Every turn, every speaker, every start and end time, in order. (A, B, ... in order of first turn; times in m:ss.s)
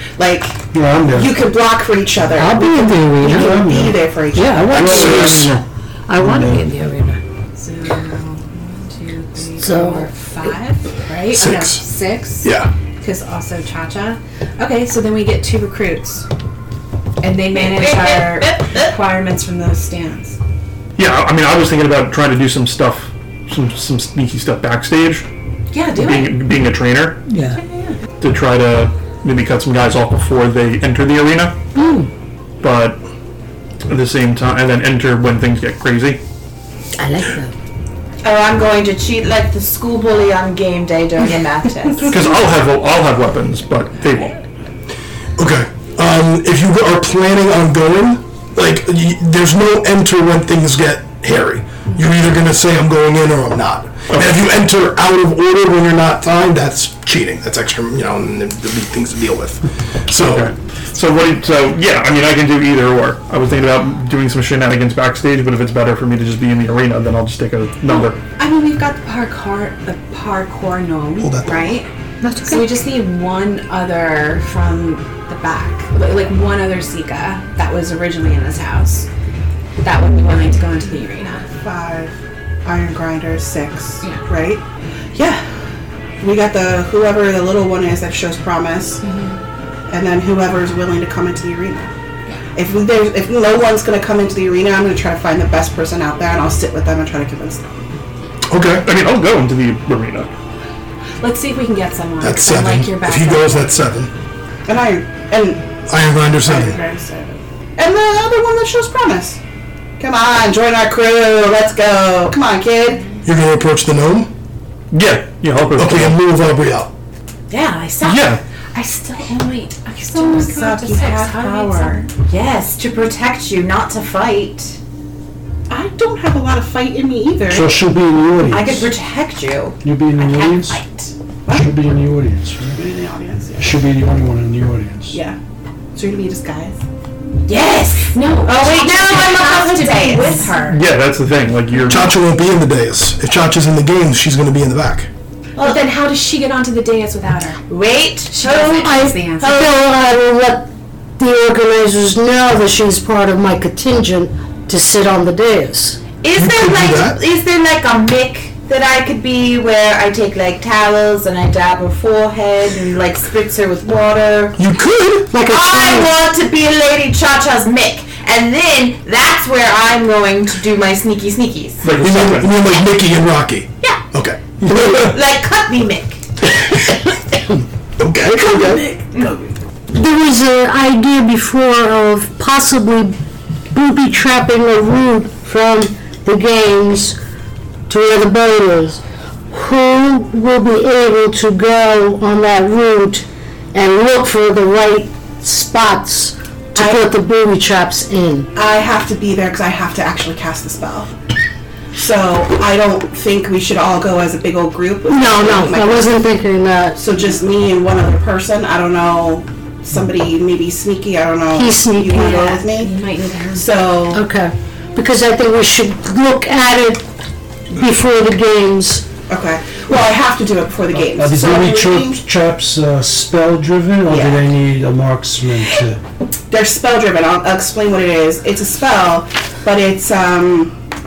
0:00.2-0:05.4 A
0:00.7-0:01.4 B
0:02.3-0:03.7 C
0:03.2-0:04.0 B
0:04.3-0:07.2 C
0:04.8-0:05.5 D
0:04.8-0:05.5 B
0:06.2-0:06.6 B
0:07.6-0:16.2 E
0:09.6-0:10.1 F
0:11.3-0:11.8 D
0:12.4-0:12.7 D
0:17.2-0:20.4 E
0:17.6-0:18.9 G
0:21.0-0:25.3 H
0:25.7-0:26.4 E
0:26.0-0:27.2 H
0:27.3-0:27.6 C
0:27.5-0:28.0 E
0:28.2-0:31.6 H
0:31.8-0:32.1 F
0:32.6-0:33.0 H
0:33.9-0:36.2 H
0:37.0-0:37.5 F
0:37.1-0:37.5 C
0:38.2-0:42.3 G
0:42.1-0:44.4 H
0:45.4-1:00.5 D
0:54.1-0:54.5 H
1:00.2-1:08.2 H
1:07.9-1:11.9 E
1:11.2-1:11.8 D
1:12.2-1:12.6 F
1:12.5-1:19.1 E
1:19.8-1:21.4 E
1:21.6-1:24.6 A
1:25.2-1:25.4 A
1:26.2-1:29.0 A
1:29.0-1:29.4 E
1:29.9-1:31.9 A
1:32.6-1:37.9 A
1:38.5-1:38.9 D
1:38.8-1:40.3 H
1:41.2-1:43.7 E
1:42.2-1:44.1 D
1:44.7-1:45.7 A
1:45.9-1:46.8 D
1:46.4-1:49.4 A
1:50.0-1:53.1 A
1:53.2-1:54.3 D
1:54.9-1:56.2 H
1:55.8-1:56.9 D
1:57.5-1:58.3 G
1:58.0-1:58.4 H
1:58.8-2:02.1 E
2:00.2-2:02.1 A
2:02.2-2:04.8 G
2:05.7-2:07.8 A
2:07.4-2:08.9 B
2:08.4-2:11.1 G
2:09.8-2:10.8 B
2:11.5-2:11.7 A
2:11.5-2:12.8 B
2:12.8-2:13.8 A
2:13.6-2:15.2 B
2:15.1-2:15.4 A
2:15.9-2:16.8 A
2:17.5-2:20.8 G
2:18.1-2:20.8 E
2:20.7-2:22.2 H
2:21.8-2:25.1 D
2:25.6-2:27.6 E
2:27.7-2:29.5 G
2:28.3-2:29.7 E
2:28.8-2:36.0 F
2:36.2-2:44.6 G
2:36.3-2:37.2 D
2:44.6-2:45.3 D
2:45.3-2:46.2 F
2:45.3-2:51.8 G
2:51.8-2:52.6 H
2:51.9-2:55.2 D
2:54.6-2:56.2 G
2:58.0-2:58.9 D
2:58.4-2:58.7 G
2:59.9-3:03.2 F
3:03.7-3:07.2 F
3:07.9-3:18.5 F
3:16.8-3:17.0 A
3:18.6-3:21.1 A
3:22.0-3:26.1 A
3:25.1-3:27.1 F
3:27.0-3:32.9 A
3:31.5-3:32.4 F
3:32.1-3:33.7 E
3:33.5-3:34.3 A
3:34.1-3:37.0 F
3:37.7-3:39.0 F
3:39.3-3:42.2 A
3:40.9-3:46.0 B
3:44.1-3:44.5 A
3:46.5-3:50.7 A